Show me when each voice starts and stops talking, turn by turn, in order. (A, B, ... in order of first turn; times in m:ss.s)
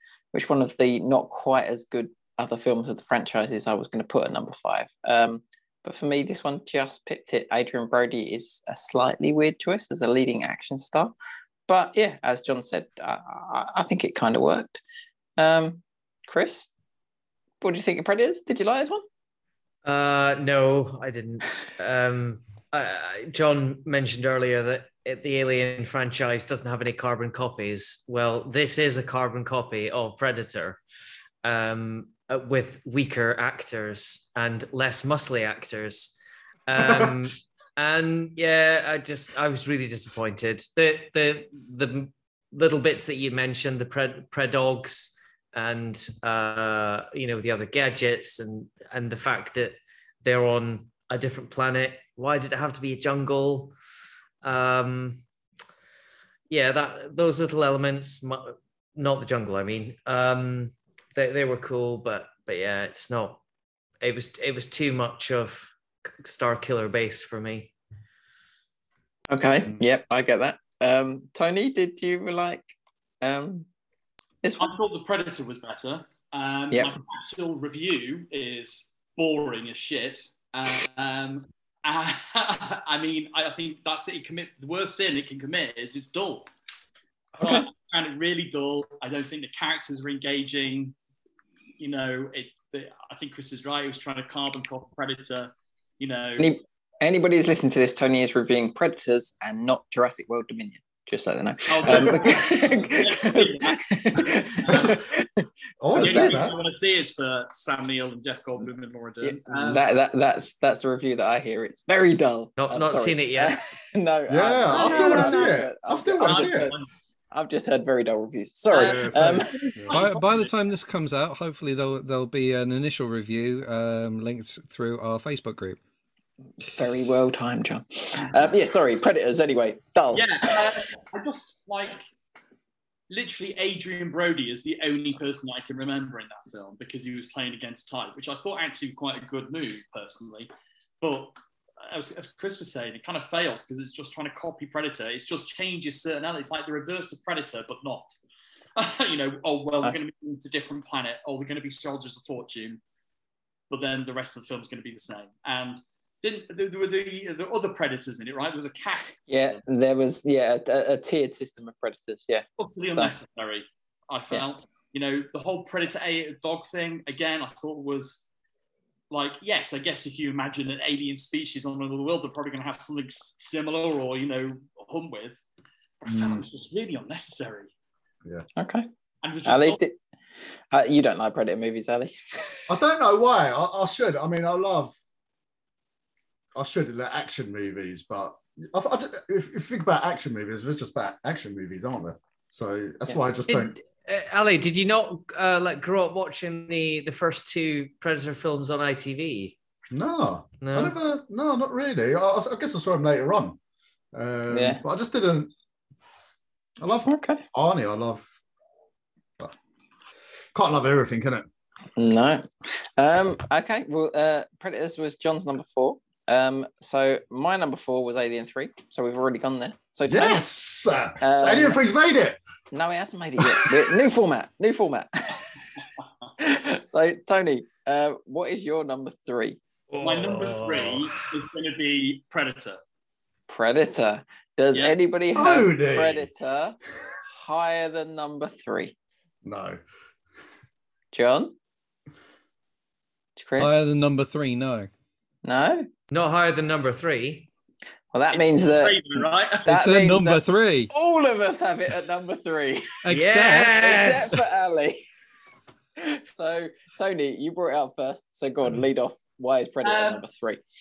0:00.3-0:11.1 A
0:11.7-0:14.8 A
0:15.4-0:16.7 A
0:17.6-0:19.0 A
0:19.8-0:30.8 B
0:31.4-0:36.2 B
0:36.7-0:53.7 B
0:36.8-0:37.1 C
0:54.4-0:55.2 B
0:56.5-1:03.4 B
1:04.0-1:07.7 B
1:09.3-1:13.7 A
1:14.4-1:14.7 A
1:14.6-1:26.5 D
1:27.4-1:31.0 D
1:27.4-1:27.7 A
1:31.8-1:36.5 D
1:36.4-1:46.4 A
1:41.7-1:45.0 D
1:44.7-1:45.0 C
1:45.8-1:46.6 C
1:46.0-1:49.8 D
1:49.2-1:56.8 A
1:52.6-1:53.6 B
1:54.3-1:56.8 C
1:54.7-1:55.6 D
1:56.2-1:56.9 D
1:57.3-1:59.5 A
1:58.7-2:00.5 D
1:58.7-2:00.0 C
1:59.9-2:05.8 E
2:06.7-2:10.3 A
2:10.1-2:12.1 D
2:13.1-2:20.5 D
2:21.0-2:28.2 D
2:28.8-2:32.8 D
2:33.7-2:39.6 D
2:39.3-2:43.1 A
2:42.6-2:48.2 D
2:49.1-2:55.4 D
2:56.0-2:57.7 D
2:56.1-2:56.4 C
2:58.6-2:58.9 A
2:59.2-2:59.8 D
2:59.4-3:00.0 A
3:00.7-3:02.7 A
3:02.7-3:05.0 C
3:06.6-3:13.8 C
3:13.5-3:19.5 B
3:19.9-3:23.6 C
3:20.6-3:21.0 B
3:24.1-3:25.5 C
3:24.5-3:24.8 A
3:26.8-3:28.3 C
3:27.1-3:27.4 A
3:30.5-3:31.5 C
3:32.0-3:40.4 A
3:40.1-3:42.4 C
3:41.2-3:41.8 A
3:42.7-3:45.4 A
3:43.5-3:43.8 C
3:46.4-3:49.6 A
3:49.9-3:51.0 B
3:50.0-3:52.8 D
3:53.5-3:56.8 A
3:55.3-3:56.3 C
3:57.3-3:59.0 A
3:59.4-3:59.8 C
4:01.1-4:01.6 A
4:03.4-4:04.0 A
4:03.6-4:04.9 E
4:05.4-4:05.9 A
4:06.1-4:07.5 B
4:08.1-4:09.0 A
4:08.3-4:09.7 D
4:09.6-4:13.1 A
4:09.7-4:10.9 E
4:13.0-4:14.4 E
4:13.1-4:14.5 B
4:13.8-4:15.0 A
4:16.0-4:20.6 A
4:19.8-4:20.2 D